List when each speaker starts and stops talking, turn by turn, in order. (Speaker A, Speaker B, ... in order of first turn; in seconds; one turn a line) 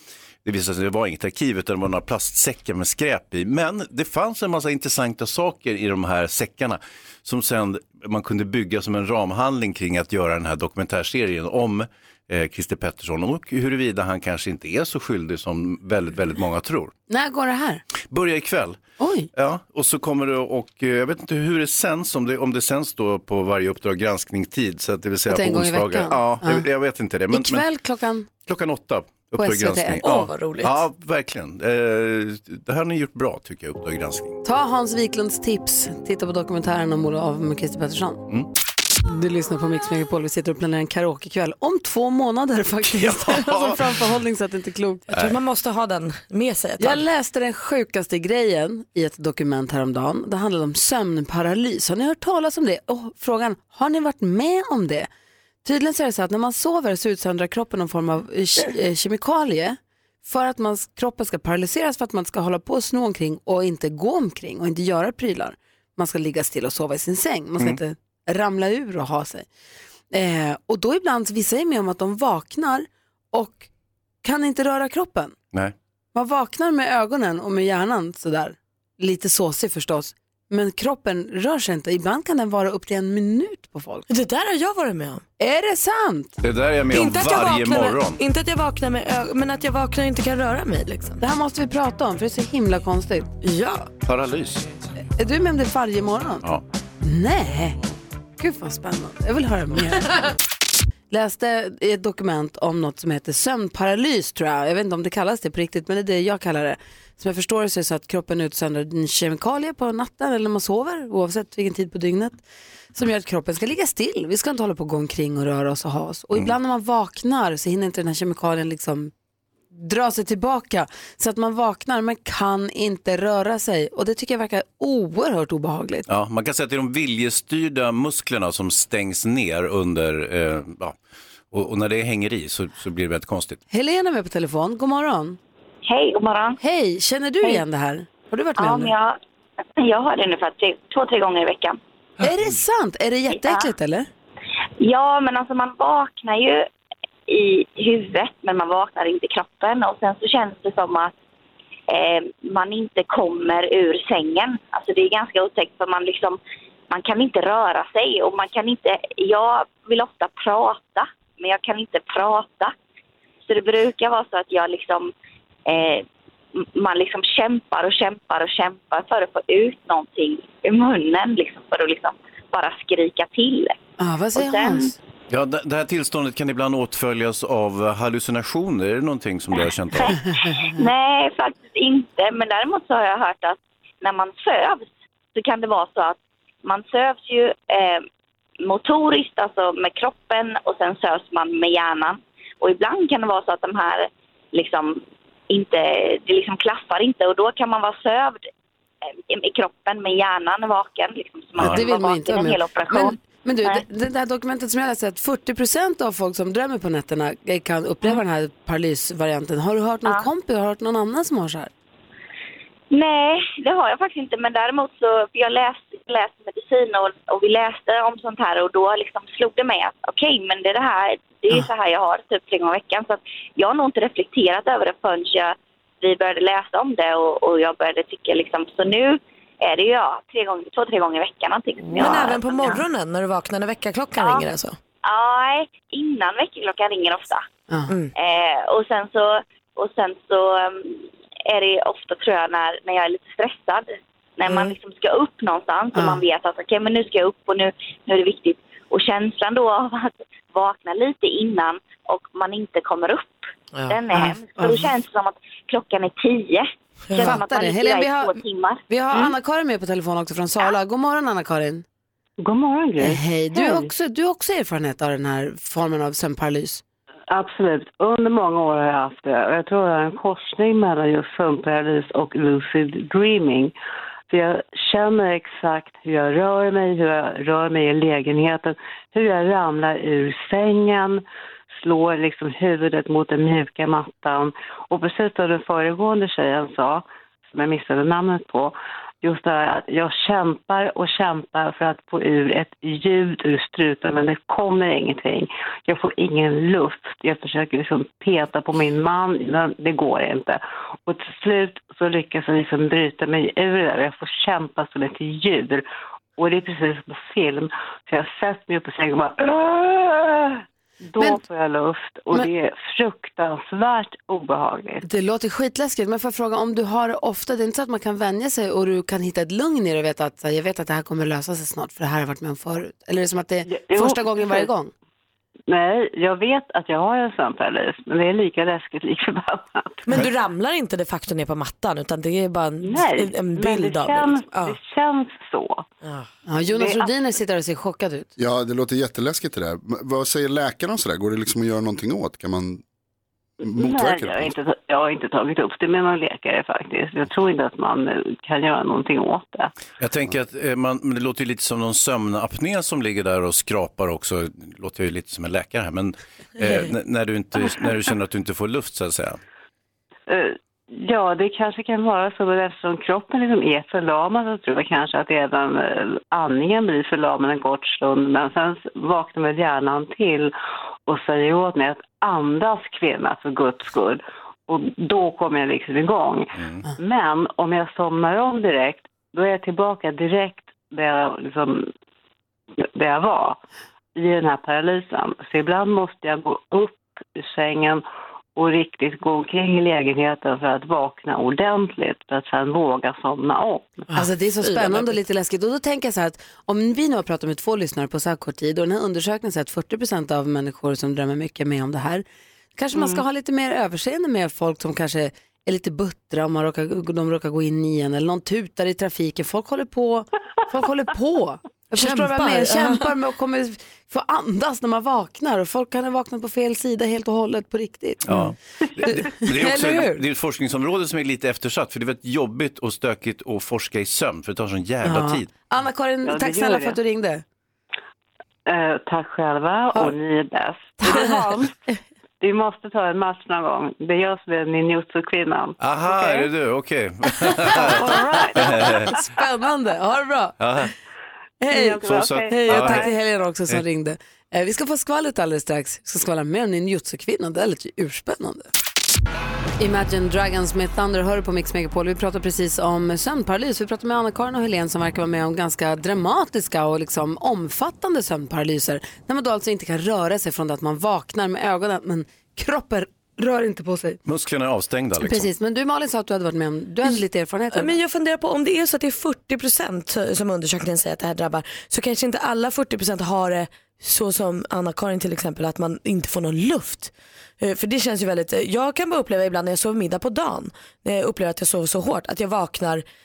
Speaker A: 0.5-16.9
Speaker B: 17.1-17.8
Speaker A: 18.1-18.8
Speaker B: 19.0-19.3
Speaker A: 19.3-27.7
Speaker B: 25.3-26.7
Speaker B: 27.3-28.3
Speaker A: 28.5-34.4
Speaker B: 29.4-30.0
Speaker C: 30.0-30.8
Speaker B: 34.4-38.2
Speaker B: 39.0-45.1
Speaker A: 42.9-43.9
Speaker C: 45.1-47.0
Speaker B: 46.8-55.1
Speaker B: 55.6-69.5
Speaker B: 70.1-73.7
Speaker B: 74.2-75.4
Speaker B: 76.1-84.1
Speaker C: 84.1-85.2
Speaker B: 85.4-86.4
Speaker A: 86.4-88.2
Speaker C: 86.9-91.2
Speaker B: 91.2-93.3
Speaker C: 93.4-93.9
Speaker A: 94.0-94.7
Speaker B: 95.2-96.5
Speaker B: 97.0-97.8
Speaker B: 98.4-100.3
Speaker B: 101.1-112.4
Speaker B: 112.9-119.1
Speaker B: 119.7-126.1
Speaker A: 126.1-131.0
Speaker A: 131.5-133.6
Speaker B: 133.7-135.4
Speaker D: 135.9-136.6
Speaker B: 136.6-138.9
Speaker D: 138.6-139.2
Speaker D: 139.8-141.8
Speaker B: 142.2-144.1
Speaker D: 143.3-143.7
Speaker D: 144.8-146.7
Speaker D: 147.3-151.1
Speaker D: 151.9-156.4
Speaker D: 156.9-162.7
Speaker D: 163.5-165.1
Speaker D: 165.7-166.1
Speaker D: 166.6-173.8
Speaker B: 174.0-175.0
Speaker D: 174.3-174.9
Speaker A: 175.3-180.2
Speaker D: 180.0-188.0
Speaker D: 188.6-198.5
Speaker D: 199.3-203.8
Speaker A: 201.6-201.8
Speaker B: 201.6-211.7
Speaker D: 212.9-232.8
Speaker B: 231.8-232.3
Speaker C: 232.0-234.8
Speaker D: 234.2-234.4
Speaker D: 235.0-237.4
Speaker D: 238.2-258.8
Speaker C: 244.5-244.7
Speaker B: 245.9-246.2
Speaker B: 254.1-254.9
Speaker C: 257.1-257.4
Speaker B: 257.2-258.4
Speaker B: 258.9-261.8
Speaker E: 262.4-263.9
Speaker B: 263.0-266.8
Speaker E: 267.3-273.7
Speaker E: 274.3-305.9
Speaker E: 306.4-315.0
Speaker B: 315.0-324.9
Speaker E: 323.7-324.7
Speaker E: 325.7-330.1
Speaker C: 330.1-334.8
Speaker E: 332.8-335.9
Speaker B: 336.5-338.3
Speaker E: 336.7-337.1
Speaker F: 338.4-342.8
Speaker F: 343.6-344.5
Speaker E: 343.6-349.7
Speaker A: 350.0-359.4
Speaker E: 360.3-370.6
Speaker E: 371.1-381.9
Speaker E: 382.9-383.6
Speaker E: 384.1-388.0
Speaker E: 388.6-394.1
Speaker C: 394.1-395.2
Speaker B: 394.1-402.2
Speaker B: 402.8-420.2
Speaker C: 412.0-413.1
Speaker A: 418.3-425.5
Speaker B: 425.0-427.4
Speaker E: 426.2-427.0
Speaker E: 428.7-431.7
Speaker B: 431.1-431.3
Speaker E: 432.4-435.8
Speaker A: 435.8-439.2
Speaker E: 437.5-439.2
Speaker B: 438.1-440.6
Speaker A: 440.6-440.9
Speaker B: 441.6-448.7
Speaker E: 441.7-443.1
Speaker A: 442.0-443.1
Speaker B: 449.8-464.2
Speaker A: 464.3-465.5
Speaker B: 465.2-468.0
Speaker C: 467.7-483.1